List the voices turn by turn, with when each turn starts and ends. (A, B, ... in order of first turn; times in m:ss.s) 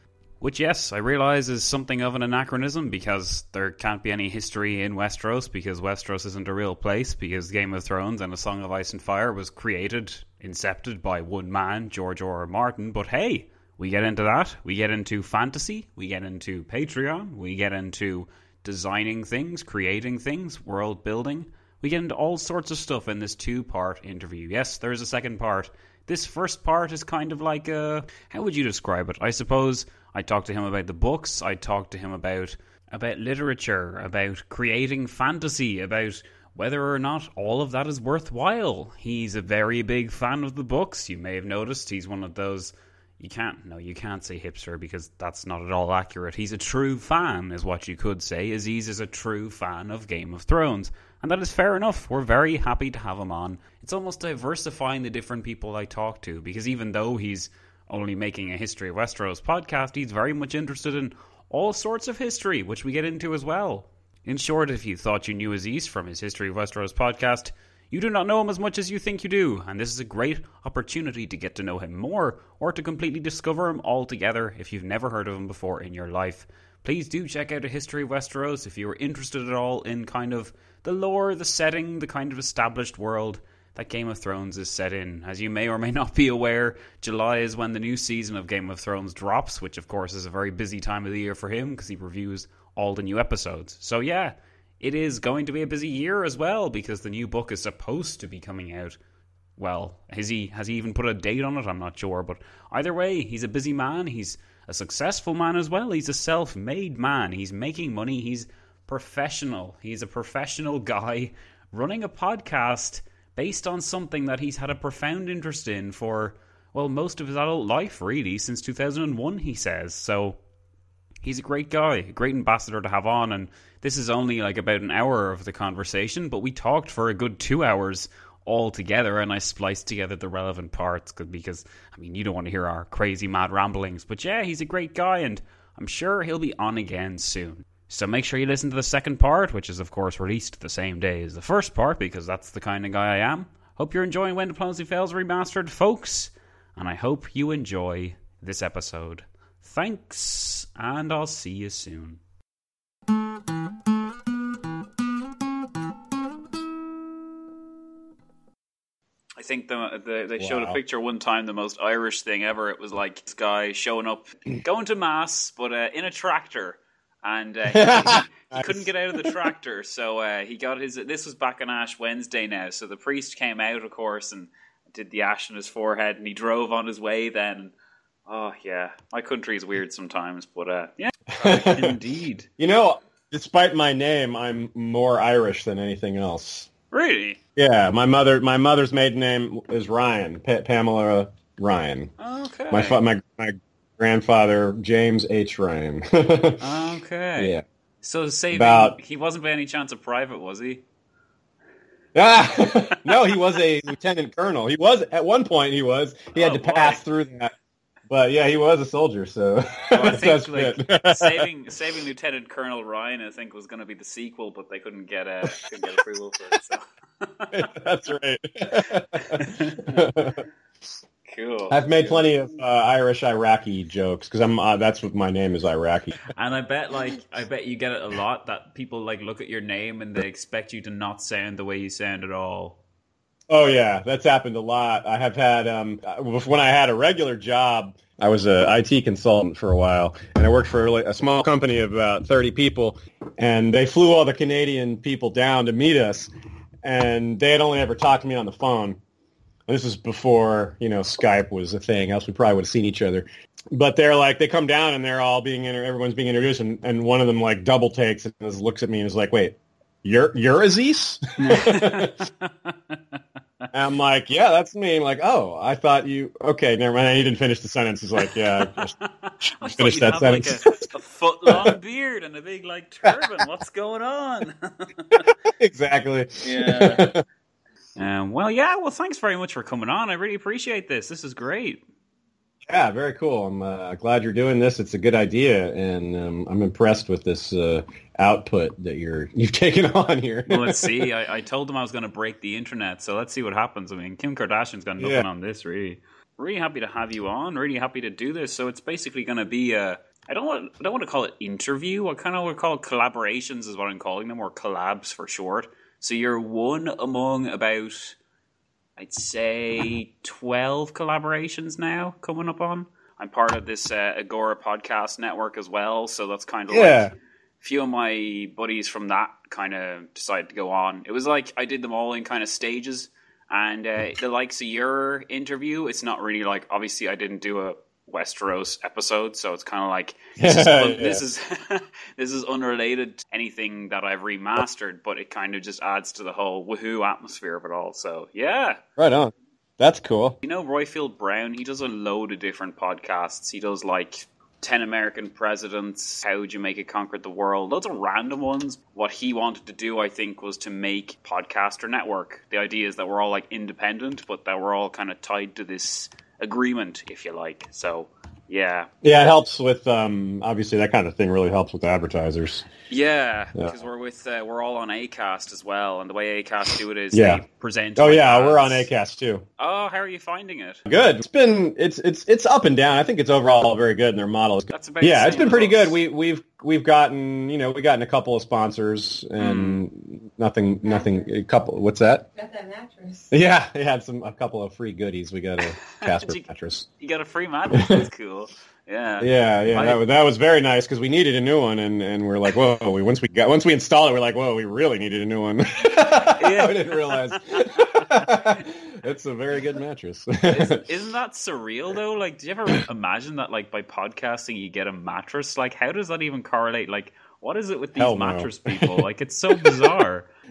0:00.4-1:39.0 A
1:39.6-2:00.4 A
2:01.2-2:32.2 A
2:39.4-2:57.7 A
2:40.4-2:40.8 B
2:47.7-2:49.4 B
2:58.3-3:02.5 A
3:01.4-3:02.0 B
3:02.6-3:06.7 B
3:06.9-3:07.4 A
3:07.6-3:12.1 B
3:12.2-3:13.0 A
3:12.7-3:16.6 B
3:16.6-3:20.8 A
3:17.4-3:17.6 B
3:18.5-3:19.0 B
3:22.1-3:27.5 B
3:26.3-3:27.0 A
3:28.1-3:31.4 B
3:29.9-3:37.7 A
3:37.5-3:40.4 B
3:39.2-3:40.1 A
3:41.3-3:42.4 A
3:41.7-3:46.2 B
3:46.3-3:52.8 A
3:53.5-4:06.3 B
4:06.8-4:09.0 B
4:09.7-4:22.1 B
4:21.4-4:23.2 A
4:23.7-4:30.9 B
4:28.6-4:35.3 A
4:31.4-4:31.8 B
4:33.0-4:33.3 B
4:35.1-4:37.2 B
4:36.4-4:37.0 A
4:38.0-4:41.8 A
4:42.7-4:51.1 B
4:50.5-5:08.2 A
4:55.0-4:55.2 B
5:09.0-5:38.8 A
5:16.7-5:17.1 B
5:30.4-5:31.2 B
5:39.0-5:40.4 B
5:40.4-5:58.9 A
5:59.0-6:02.6 B
6:02.9-6:08.9 A
6:07.1-6:07.4 B
6:08.0-6:09.4 B
6:09.6-6:10.9 A
6:10.9-6:26.9 B
6:14.7-6:16.0 A
6:19.4-6:19.8 A
6:26.0-6:26.4 A
6:27.0-6:30.0 A
6:27.7-6:28.0 B
6:29.2-6:40.8 B
6:36.4-6:37.7 A
6:40.5-6:50.3 A
6:48.0-6:48.9 B
6:49.5-6:50.0 B